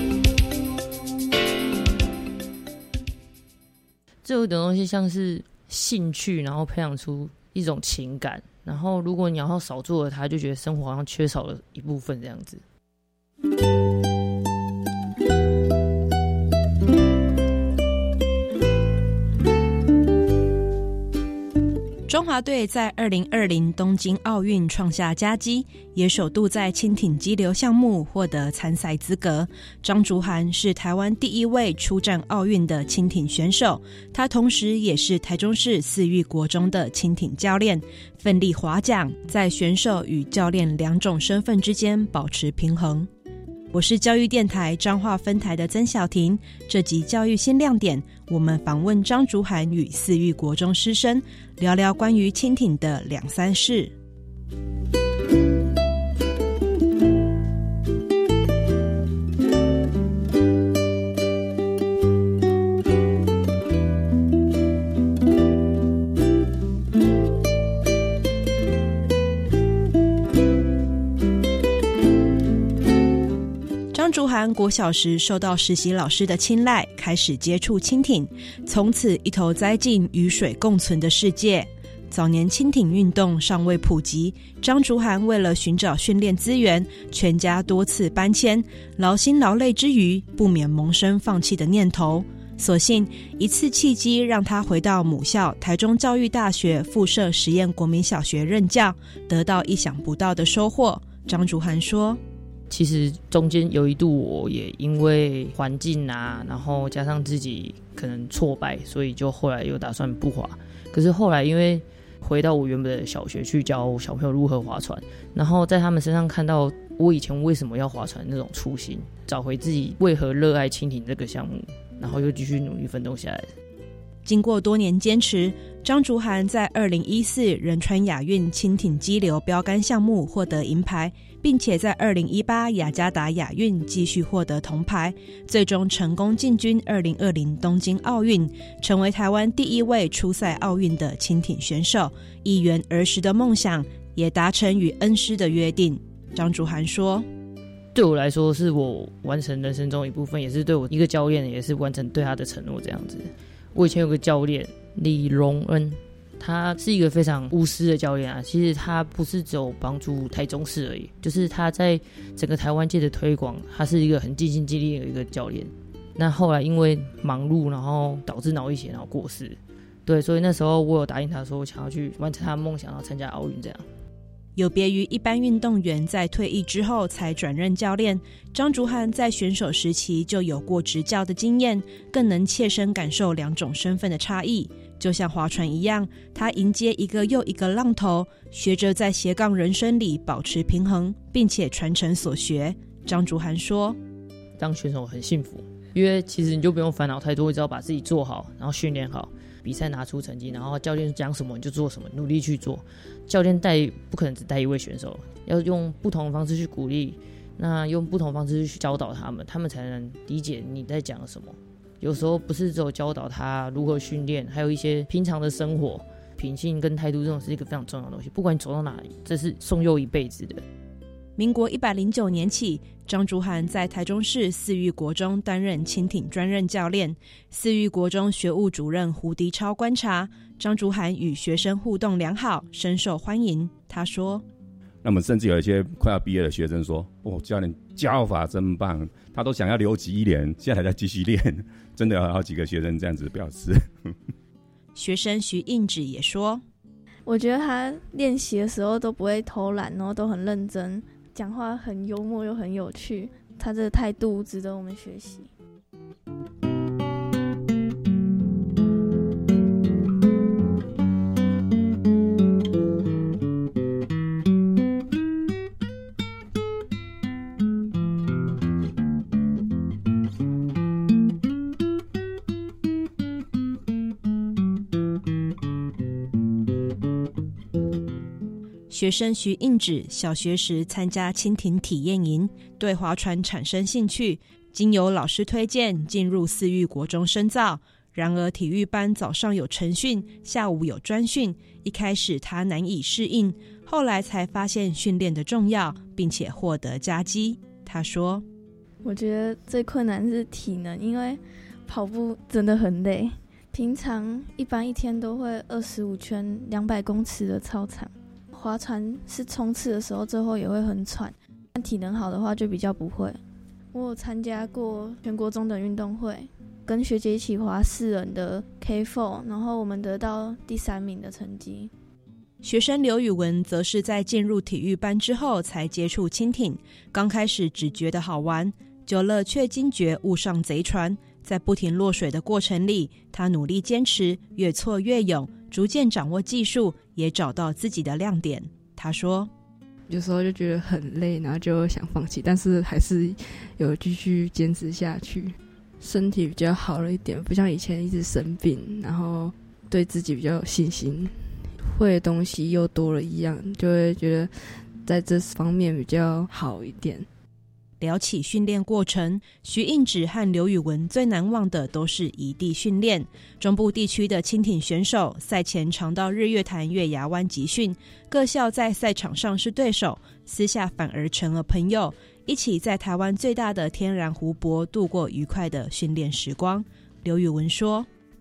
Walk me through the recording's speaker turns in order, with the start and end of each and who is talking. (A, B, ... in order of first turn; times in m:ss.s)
0:04.2-0:12.6 A
0:22.1-0:43.1 B
0:43.7-0:53.9 B
1:13.9-1:42.2 B
1:42.7-2:03.5 A
2:04.2-2:27.3 B
2:27.9-2:53.9 A
2:54.6-3:14.0 B
3:14.6-3:40.6 A
3:41.4-3:54.4 B
3:55.0-4:04.2 C
4:05.0-4:06.6 B
4:07.3-4:15.5 D
4:38.9-4:58.4 B
4:59.0-5:13.4 D
5:13.9-5:21.9 D
5:22.6-5:39.5 B
5:40.1-5:57.3 E
5:58.0-6:18.1 B